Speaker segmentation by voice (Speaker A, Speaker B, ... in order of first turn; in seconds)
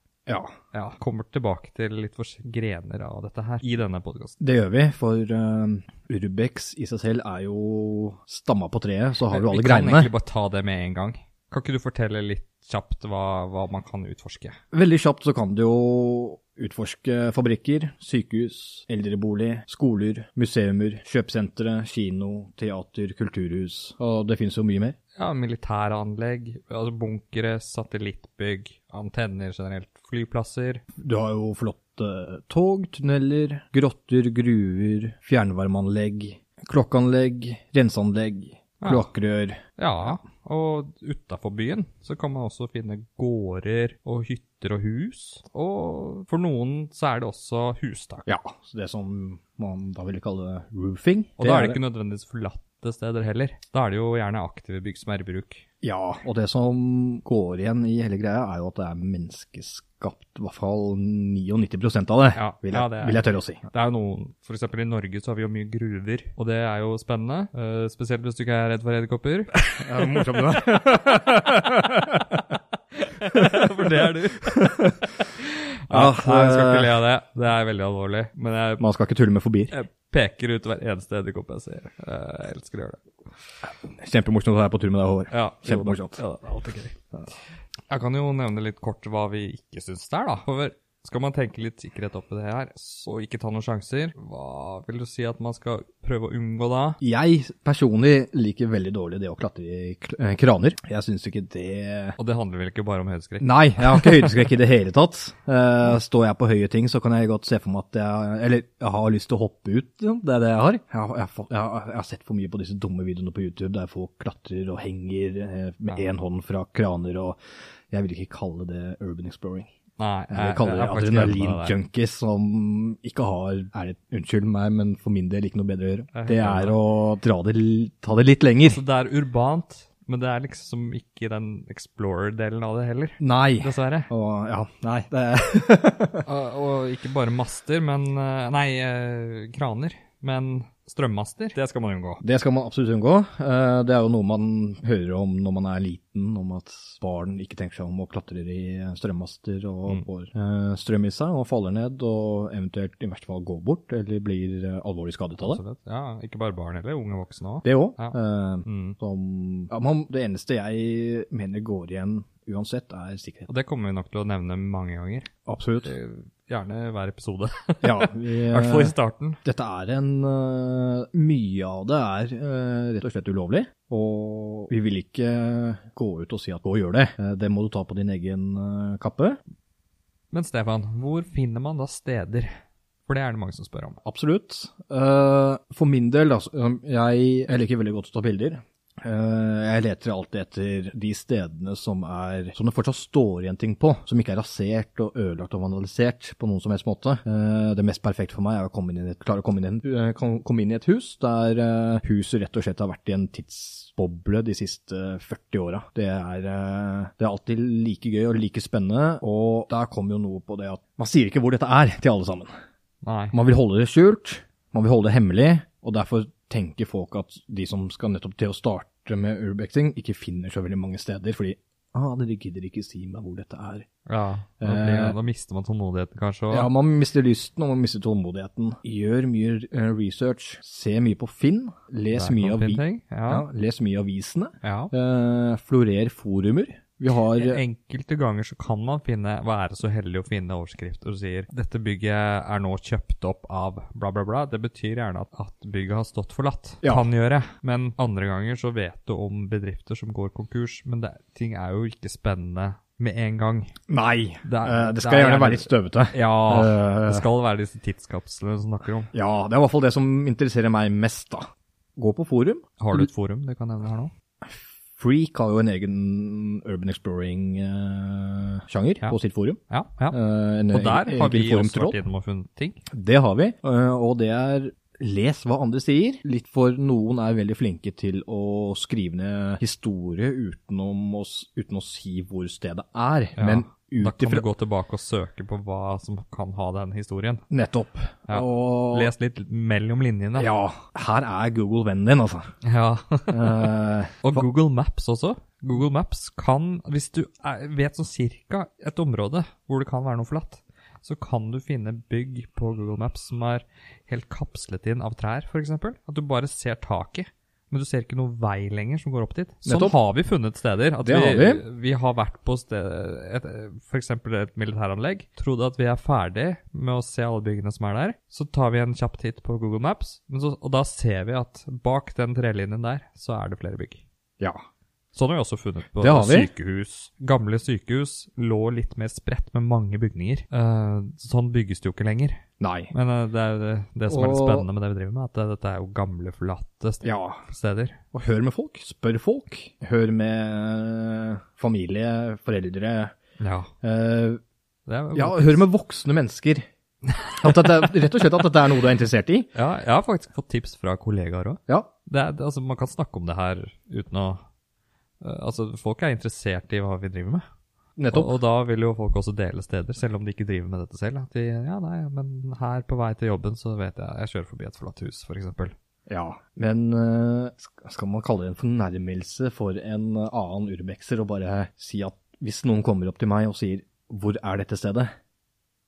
Speaker A: 0.3-0.5, 4.4-10.1, 14.7-24.9, 31.0-40.2, 48.3-51.8, 55.8-63.6, 69.8-72.4, 73.3-75.1, 75.9-77.0, 78.8-79.7, 83.9-86.2, 97.0-102.2, 103.4-117.4, 117.9-119.7, 120.3-128.8, 133.2-136.3, 142.2-155.6, 157.6-163.5, 165.5-165.9, 167.8-179.4, 184.0-212.5, 213.3-223.9, 224.6-225.1, 226.5-237.6, 253.9-257.3, 259.1-261.4, 262.0-263.1, 264.4-269.6, 270.1-272.0, 272.9-284.4, 287.5-289.1, 290.4-292.5, 293.3-294.4, 309.6-309.9, 311.0-311.6, 326.0-326.5, 332.6-332.9, 334.1-334.7, 337.0-337.4, 338.1-343.1, 343.8-344.4, 345.1-346.6, 347.3-349.5, 358.0-358.4, 366.1-375.1
Speaker B: 0.7-4.3, 9.3-14.6, 25.1-30.8, 38.8-39.1, 39.8-48.3, 51.4-55.6, 62.3-70.3, 73.0-78.8, 79.7-83.0, 85.3-87.0, 87.9-97.0, 102.2-104.3, 120.0-121.8, 126.1-126.8, 128.7-134.1, 136.2-142.2, 155.4-159.0, 163.5-165.3, 165.8-169.4, 180.3-182.5, 183.1-184.0, 213.0-213.3, 224.1-226.7, 232.1-233.4, 234.6-234.9, 237.3-253.8, 254.4-259.1, 262.8-264.1, 269.7-270.2, 270.7-272.8, 283.4-287.4, 288.3-290.5, 292.6-324.0, 325.1-338.0, 343.4-343.7, 344.9-345.7, 347.1-347.5, 349.5-354.4, 355.2-357.4, 358.1-365.7